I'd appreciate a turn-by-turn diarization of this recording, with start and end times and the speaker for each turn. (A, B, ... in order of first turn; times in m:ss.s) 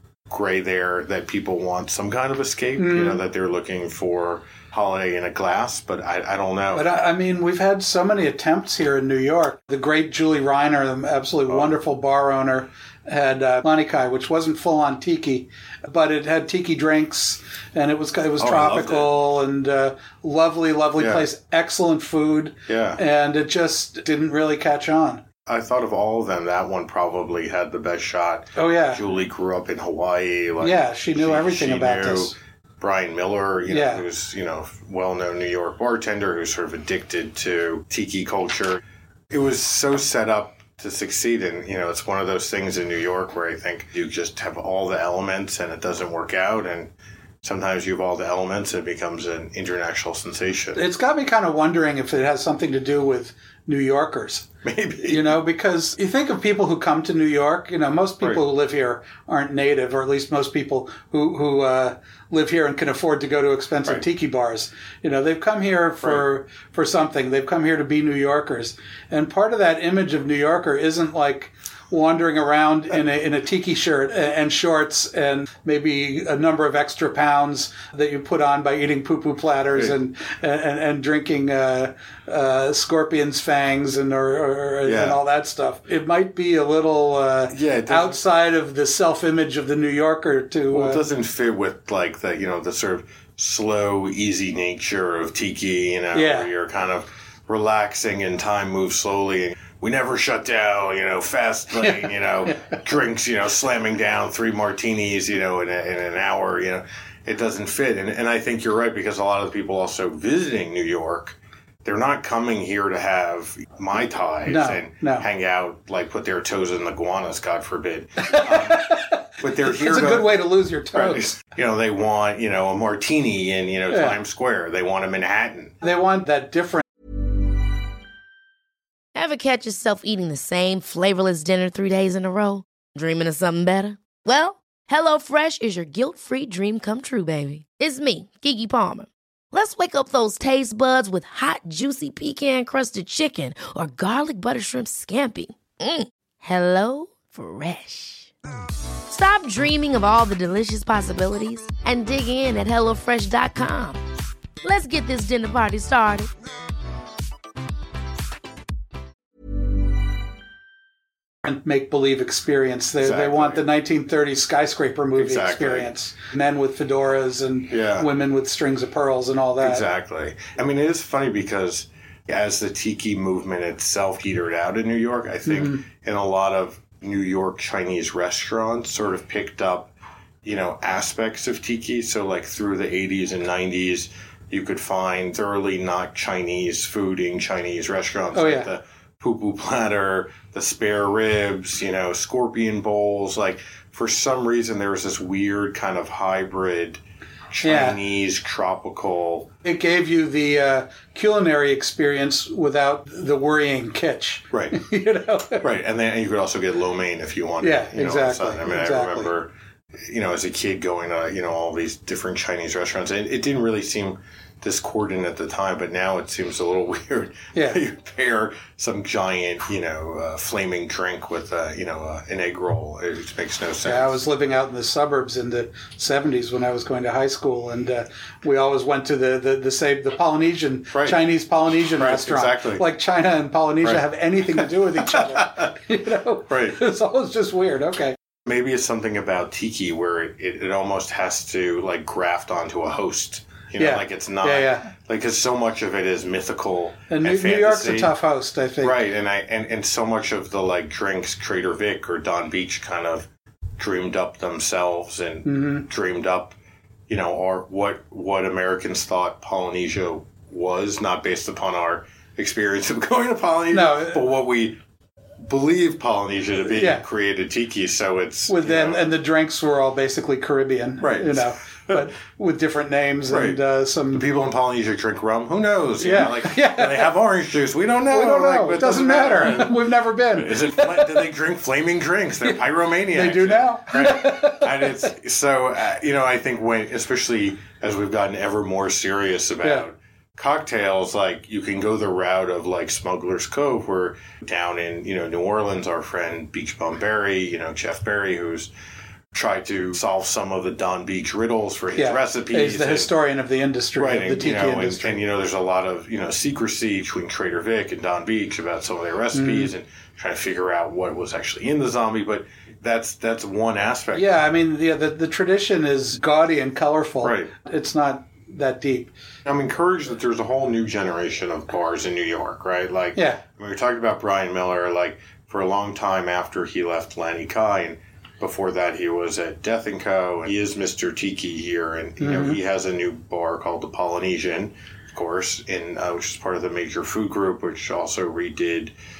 0:00.3-0:06.9 A
0:02.8-0:03.2 B
0:06.7-0:25.2 B
0:18.4-0:19.1 A
0:21.0-0:21.3 A
0:22.7-0:23.0 A
0:25.4-0:50.8 A
0:28.6-0:29.0 B
0:30.6-0:32.4 B
0:33.7-0:34.0 B
0:50.7-0:54.5 B
0:54.6-0:55.4 A
0:55.0-1:31.0 B
1:24.8-1:25.2 A
1:27.5-1:28.2 A
1:30.7-2:00.4 A
1:36.1-1:36.5 B
1:54.4-1:55.2 B
1:58.2-2:01.3 B
2:00.9-2:05.8 A
2:03.9-2:04.2 B
2:05.8-2:06.8 B
2:09.1-2:28.3 C
2:29.1-2:34.0 C
2:34.6-2:36.3 C
2:41.4-2:49.8 B
2:43.0-2:43.6 A
2:45.2-2:45.9 A
2:47.7-2:48.1 A
2:49.6-3:19.5 A
2:55.5-2:55.8 B
3:08.3-3:08.7 B
3:17.6-3:18.0 B
3:19.6-3:25.6 B
3:24.5-3:24.8 A
3:25.6-3:44.2 A
3:27.6-3:29.3 B
3:37.5-3:37.8 B
3:43.8-3:58.2 B
3:50.9-3:51.2 A
3:51.7-3:52.8 A
3:54.5-3:55.7 A
3:56.5-3:56.8 A
3:58.4-4:08.1 A
4:03.8-4:04.9 B
4:07.1-4:09.0 B
4:08.8-4:16.6 A
4:15.4-4:15.8 B
4:17.1-4:24.8 A
4:23.7-4:24.3 B
4:25.4-4:29.1 A
4:26.7-4:27.0 B
4:28.5-4:34.2 B
4:31.0-4:32.0 A
4:33.3-4:33.6 A
4:34.1-4:58.7 A
4:36.0-4:37.1 B
4:38.1-4:41.2 B
4:43.1-4:45.1 B
4:59.3-5:03.1 A
5:02.0-5:05.2 B
5:04.0-5:14.3 A
5:09.3-5:09.7 B
5:14.1-5:19.1 B
5:17.2-5:17.5 A
5:19.4-5:38.9 A
5:23.1-5:23.4 B
5:32.2-5:32.6 B